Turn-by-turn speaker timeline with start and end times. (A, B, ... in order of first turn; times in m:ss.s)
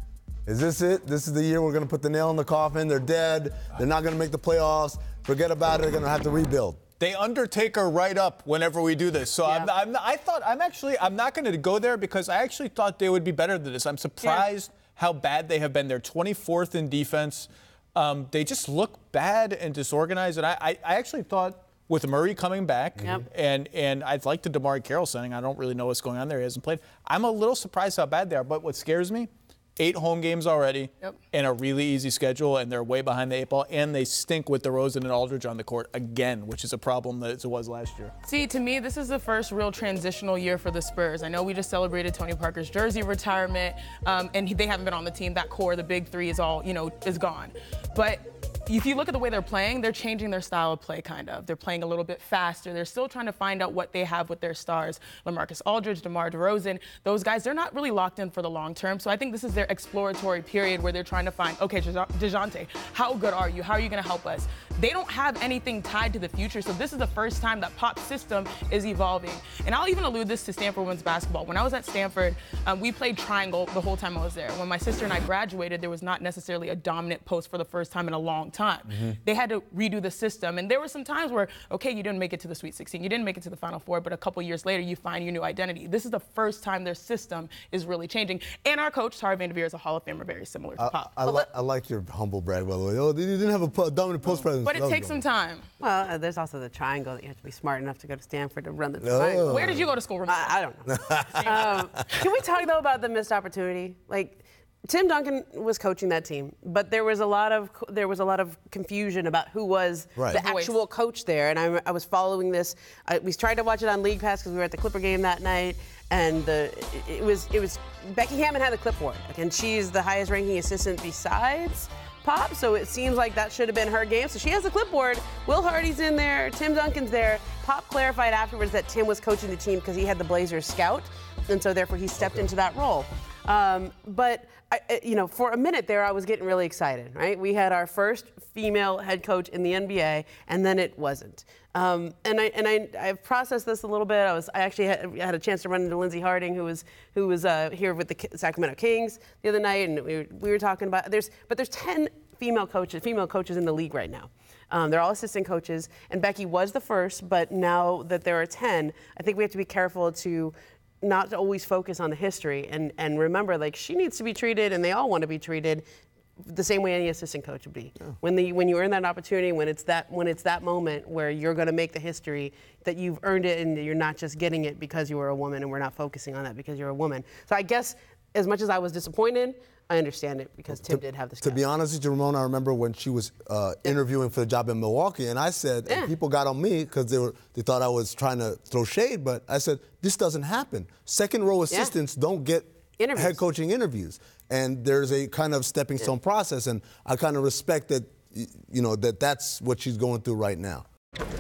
0:00.4-0:06.8 A
0:07.0-0:38.1 B
0:09.4-0:09.7 C
0:23.0-0:23.2 C
0:38.2-1:31.5 D
1:18.9-1:19.2 A
1:30.8-1:35.2 A
1:34.3-1:35.6 D
1:35.8-2:45.8 C
1:39.0-1:39.8 A
1:39.5-1:40.5 D
1:40.9-1:41.7 A
1:41.1-1:41.7 D
1:50.2-1:50.4 A
1:50.3-1:50.8 D
2:12.2-2:12.5 A
2:46.4-3:01.6 C
3:00.8-3:20.8 A
3:05.8-3:06.1 C
3:11.7-3:11.9 C
3:13.0-3:13.4 C